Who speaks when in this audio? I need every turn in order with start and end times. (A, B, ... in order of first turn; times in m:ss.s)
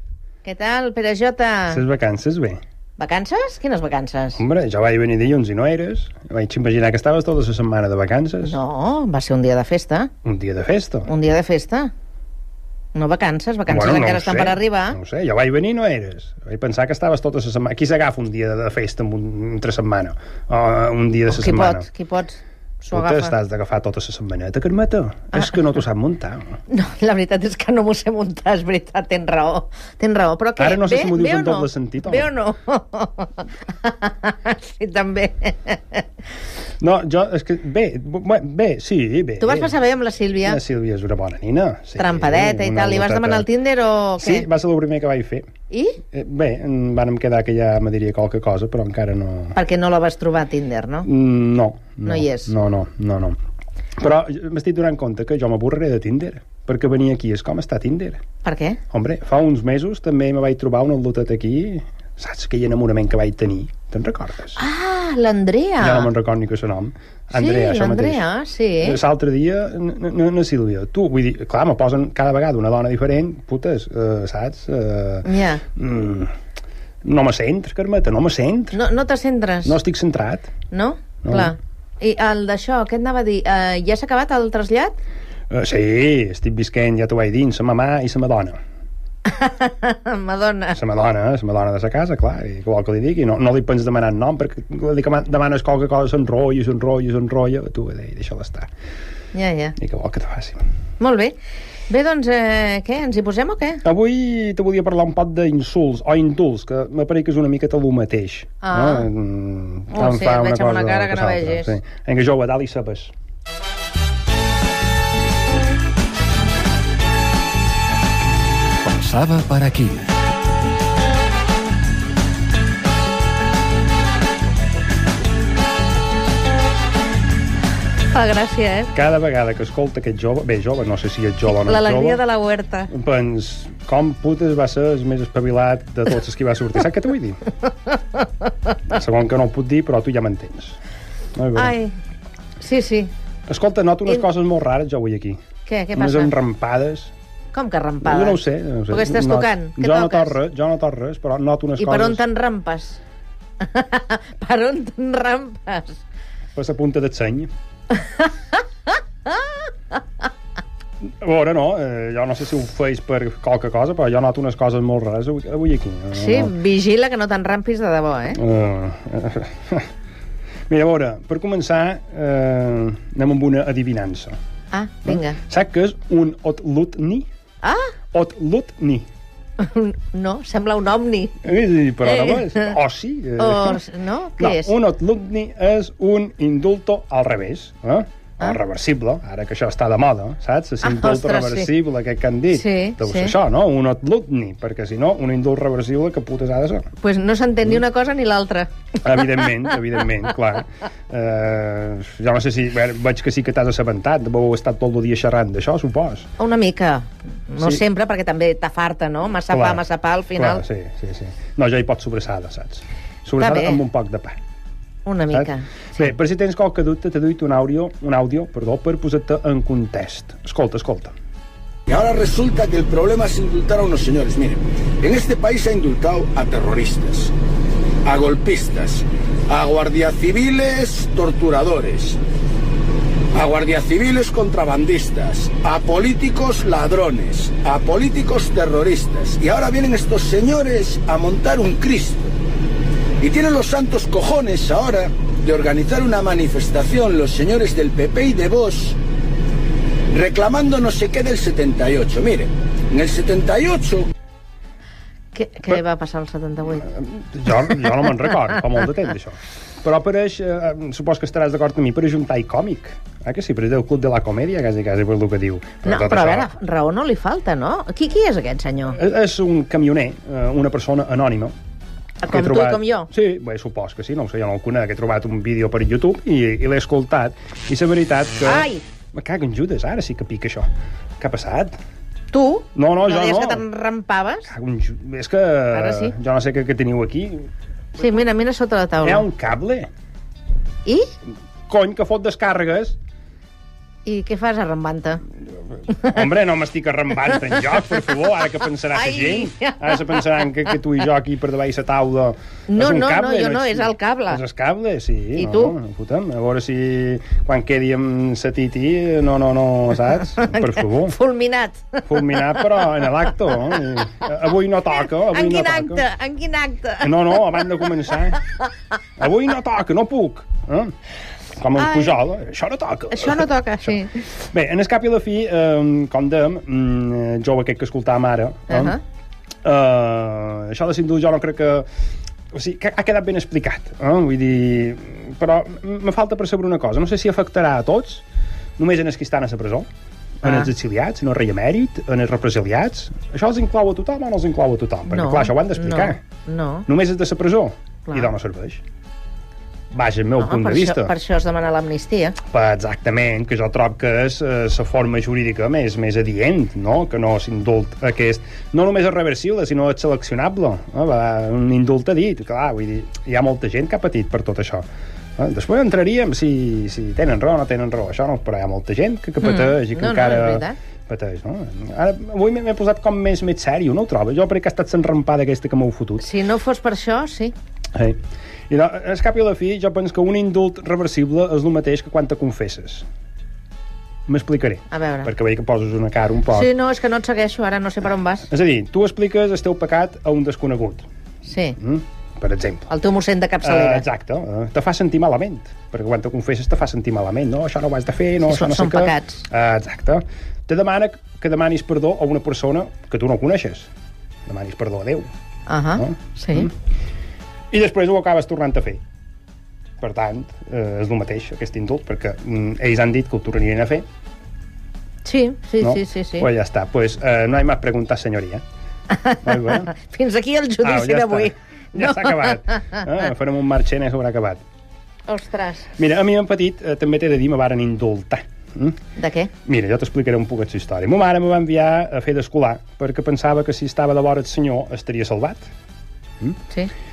0:00.4-0:01.8 A
0:01.7-0:02.6 B
0:03.0-0:04.4 A
0:04.4-0:08.6 B
0:08.4-0:10.1 A
0:10.2-0:11.1 B
0:11.1-0:11.9 A
0:12.9-0:15.0 A
0:13.7-0:21.9 B
0:21.3-0:23.3 A
0:22.9-0:26.6 B
0:26.7-0:36.0 A
0:30.6-0:32.3 B
0:36.8-0:39.8 B
0:39.4-0:40.6 A
0:40.4-0:43.5 B
0:42.0-0:44.5 A
0:44.2-0:45.5 B
0:45.7-0:46.0 A
0:46.1-0:49.6 B
0:49.6-0:51.1 A
0:51.0-0:53.4 B
0:52.0-0:52.5 A
0:54.0-0:58.2 B
0:58.4-0:58.8 A
0:58.9-1:04.6 B
1:04.6-1:06.1 A
1:05.8-1:08.2 B
1:07.3-1:09.0 A
1:08.8-1:16.3 B
1:15.2-1:15.6 A
1:17.0-1:18.8 B
1:18.7-1:19.8 A
1:19.6-1:20.5 B
1:20.7-1:25.0 A
1:21.2-1:21.5 B
1:25.5-1:28.6 B
1:29.3-1:30.8 A
1:30.7-1:38.7 B
1:39.3-1:39.8 A
1:39.8-1:40.6 B
1:41.0-1:41.4 A
1:41.9-1:43.8 A
1:43.8-1:53.1 B
1:48.6-1:49.1 A
1:49.9-1:51.7 A
1:58.9-2:00.0 C
2:08.1-2:08.9 A
2:08.9-2:12.2 B
2:11.5-2:12.9 A
2:12.9-2:17.4 B
2:18.9-2:20.8 B
2:21.4-2:21.7 B
2:21.6-2:21.9 A
2:22.6-2:23.1 A
2:23.5-2:25.4 B
2:25.7-2:26.4 A
2:26.0-2:27.1 B
2:27.5-2:30.4 A
2:28.0-2:32.2 B
2:31.8-2:33.0 A
2:33.6-2:36.0 A
2:36.6-2:37.5 B
2:37.9-2:39.6 A
2:41.1-2:46.5 B
2:46.1-2:48.4 A
2:48.3-2:49.9 B
2:50.7-2:54.3 B
2:54.7-2:55.4 A
2:55.0-2:57.3 B
2:57.6-2:57.9 A
2:58.1-2:59.1 B
2:59.6-3:01.4 A
3:01.4-3:03.8 B
3:02.1-3:02.7 A
3:03.4-3:04.7 A
3:04.4-3:16.9 B
3:10.8-3:11.7 A
3:12.5-3:13.4 A
3:17.0-3:19.8 A
3:19.0-3:26.3 B
3:26.4-3:30.6 A
3:29.5-3:29.8 B
3:30.3-3:34.4 B
3:33.4-3:33.8 A
3:35.0-3:35.7 A
3:35.3-3:41.1 B
3:41.9-3:47.3 C
3:48.0-3:52.2 C
3:53.3-4:02.3 C
4:03.2-4:09.0 C
4:10.1-4:14.1 C
4:15.3-4:16.9 A
4:16.8-4:26.5 B
4:25.8-4:29.0 A
4:28.9-4:31.5 B
4:32.2-4:33.1 A
4:32.3-4:40.7 B
4:38.4-4:38.8 A
4:41.2-4:41.7 B
4:42.3-4:44.5 A
4:42.8-4:43.7 B
4:44.5-4:47.5 B
4:45.7-4:46.1 A
4:48.0-4:49.2 A
4:49.0-4:49.9 B
4:50.9-4:51.1 A
4:51.7-4:53.0 B
4:54.0-4:55.2 A
4:56.0-5:11.2 B
4:58.9-5:00.8 A
5:02.7-5:04.4 A
5:05.4-5:05.8 A
5:10.3-5:13.8 A
5:12.1-5:16.0 B
5:15.0-5:17.7 A
5:17.0-5:18.4 B
5:19.2-5:20.9 B
5:21.6-5:29.0 B
5:21.8-5:22.2 A
5:23.1-5:24.2 A
5:28.7-5:29.0 A
5:29.6-5:31.9 B
5:32.5-5:38.2 B
5:38.8-5:39.9 B
5:40.4-5:46.2 B
5:40.4-5:40.7 A
5:45.1-5:46.9 A
5:46.9-5:48.8 B
5:49.9-5:51.1 B
5:50.4-5:52.4 A
5:52.4-6:04.8 B
6:05.4-6:16.3 B
6:09.4-6:10.8 A
6:16.2-6:17.5 A
6:18.7-6:23.0 B
6:24.3-6:26.7 B
6:24.9-6:25.3 A
6:26.5-6:28.5 A
6:28.5-6:31.0 B
6:31.5-6:31.8 A
6:31.8-6:32.9 B
6:32.9-6:34.1 A
6:33.6-6:43.9 B
6:38.5-6:39.4 A
6:44.5-6:45.3 B
6:45.7-6:46.7 A
6:46.0-6:46.7 B
6:47.7-6:49.0 B
6:50.0-6:54.0 B
6:55.2-6:56.5 A
6:55.8-6:58.6 B
6:59.1-7:03.0 A
6:59.4-6:59.9 B
7:00.8-7:04.6 B
7:05.3-7:05.9 A
7:06.0-7:09.0 B
7:09.2-7:09.5 A
7:09.6-7:15.7 B